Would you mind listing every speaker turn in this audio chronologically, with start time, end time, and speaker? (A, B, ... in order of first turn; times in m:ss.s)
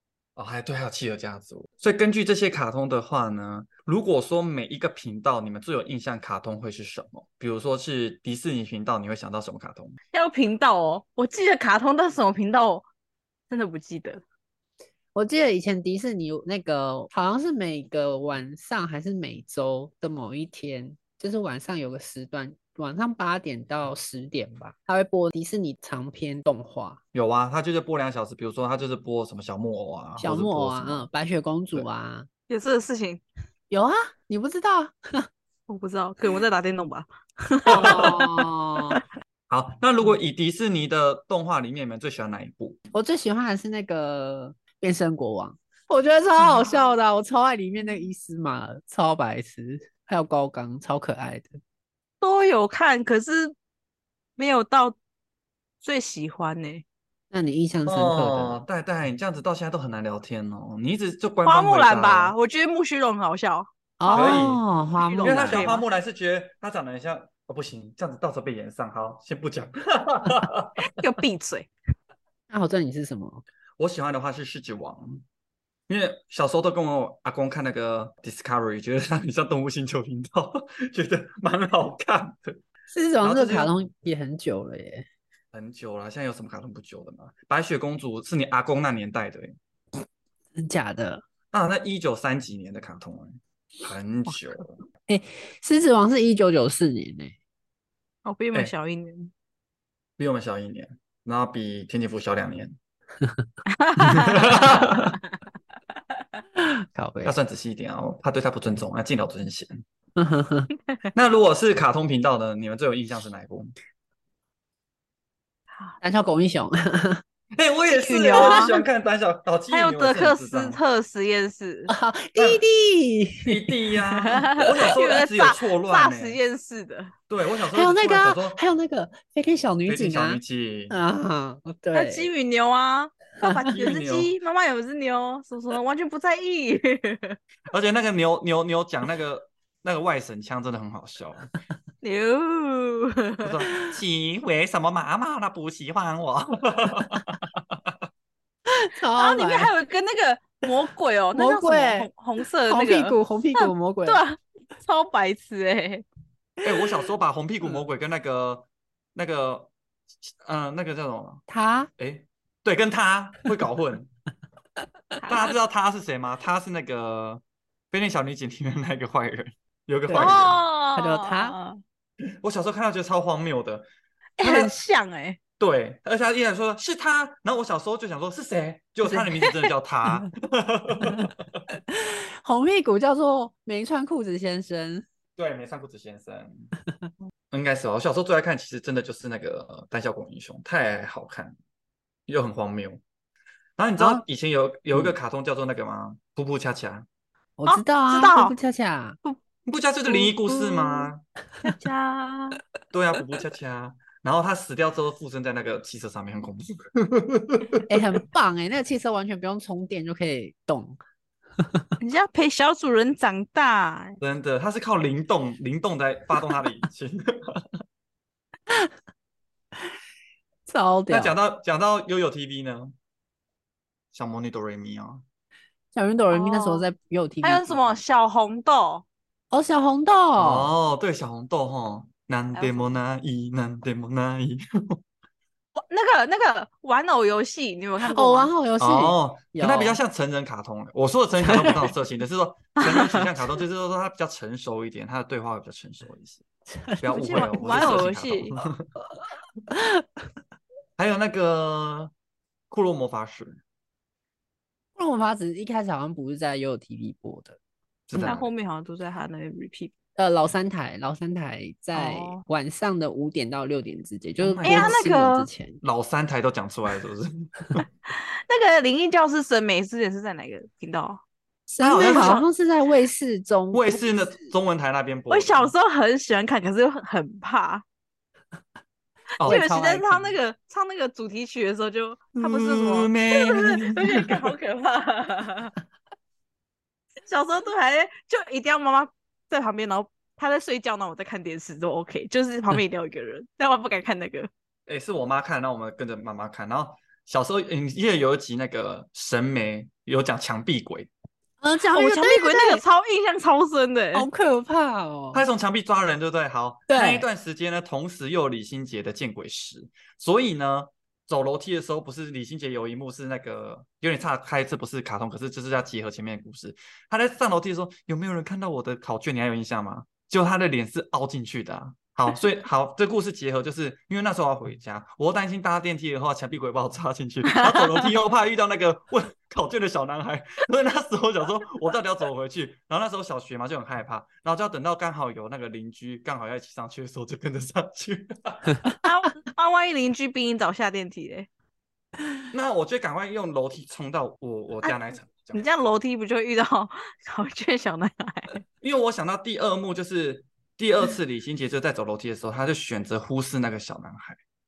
0:00.4-0:10.0 A
0:10.1-0:12.9 B
0:13.5-0:14.2 B
0:15.1-0:27.0 C
0:27.1-0:31.1 A
0:30.2-0:32.3 C
0:32.5-0:33.2 B
0:33.7-0:35.3 C
0:35.7-0:38.4 B
0:37.7-0:39.0 C
0:37.7-0:38.2 A
0:39.5-0:42.8 A
0:42.9-0:51.6 C
0:46.4-0:46.8 B
0:52.2-0:53.5 B
0:54.4-0:55.0 B
0:55.8-0:56.8 B
0:57.3-0:58.6 C
0:57.9-1:02.3 A
1:01.4-1:04.5 B
1:04.0-1:05.8 C
1:04.1-1:04.6 A
1:05.0-1:05.8 B
1:05.2-1:10.8 A
1:10.8-1:11.7 B
1:12.5-1:13.4 C
1:13.8-1:15.2 A
1:15.9-1:22.6 A
1:22.9-1:25.0 C
1:23.2-1:23.7 A
1:25.5-1:29.6 A
1:30.5-1:31.2 C
1:31.5-1:34.8 A
1:35.1-1:37.3 C
1:38.2-1:39.3 B
1:40.2-1:42.8 A
1:43.2-1:43.5 C
1:43.7-1:44.5 B
1:44.0-1:45.2 A
1:46.6-1:47.3 C
1:47.2-1:49.8 A
1:50.2-1:50.7 C
1:51.1-1:53.7 A
1:56.0-1:57.2 C
1:57.6-2:00.8 A
1:57.9-1:58.8 B
1:58.2-1:58.7 C
1:59.7-2:01.9 B
2:01.9-2:03.7 C
2:02.4-2:02.6 A
2:03.4-2:06.4 A
2:04.4-2:07.1 B
2:07.3-2:08.6 A
2:07.7-2:12.3 C
2:09.9-2:11.0 A
2:11.9-2:17.4 B
2:13.4-2:13.7 C
2:13.7-2:14.3 A
2:17.7-2:21.5 A
2:22.0-2:23.5 B
2:23.4-2:27.8 A
2:28.7-2:29.7 C
2:29.2-2:36.0 B
2:31.3-2:32.1 C
2:32.7-2:34.2 C
2:36.6-2:39.7 A
2:40.2-2:41.4 A
2:41.5-2:41.9 C
2:42.0-2:44.1 A
2:45.2-2:45.5 B
2:45.2-2:50.6 A
2:50.1-2:51.5 C
2:50.1-2:51.8 B
2:52.4-2:53.9 A
2:54.4-2:55.4 B
2:54.4-2:54.7 C
2:55.6-3:01.6 A
3:01.9-3:05.0 C
3:05.4-3:06.7 A
3:07.5-3:11.5 A
3:12.3-3:13.0 A
3:13.8-3:17.1 A
3:14.0-3:14.2 C
3:17.6-3:19.2 C
3:17.7-3:18.5 B
3:19.6-3:21.2 A
3:20.1-3:21.1 B
3:21.6-3:22.6 B
3:22.9-3:28.2 A
3:27.9-3:31.0 C
3:31.6-3:31.9 C
3:32.0-3:34.2 B
3:34.2-3:37.7 A
3:40.6-3:41.3 C
3:41.1-3:42.9 A
3:44.1-3:45.2 A
3:45.9-3:47.8 C
3:46.3-3:46.8 B
3:47.4-3:49.0 B
3:49.5-3:50.7 C
3:50.4-3:55.0 A
3:52.5-3:52.9 B
3:55.8-3:58.5 B
3:58.0-4:00.0 C
3:58.8-4:06.4 A
4:01.4-4:01.9 C
4:02.8-4:03.2 B
4:06.7-4:08.1 C
4:07.0-4:08.9 A
4:07.1-4:08.5 B
4:09.7-4:10.0 C
4:11.0-4:12.1 A
4:12.7-4:13.6 A
4:15.0-4:17.6 C
4:18.1-4:18.5 A
4:18.1-4:19.9 B
4:20.2-4:25.8 C
4:21.9-4:22.4 B
4:24.4-4:25.0 A
4:24.6-4:25.5 B
4:25.8-4:27.8 A
4:28.1-4:31.2 B
4:31.7-4:34.3 C
4:31.8-4:32.4 B
4:31.9-4:32.4 A
4:33.7-4:35.7 A
4:35.3-4:37.8 B
4:39.4-4:39.7 A
4:39.4-4:45.7 B
4:39.4-4:40.1 C
4:42.3-4:44.5 A
4:47.2-4:54.5 B
4:54.9-5:01.1 A
5:01.6-5:02.8 C
5:01.9-5:04.3 B
5:04.1-5:05.4 C
5:05.3-5:39.0 A
5:06.9-5:07.2 C
5:39.0-5:41.5 B
5:42.5-5:45.6 A
5:45.5-5:48.6 B
5:48.8-5:54.4 A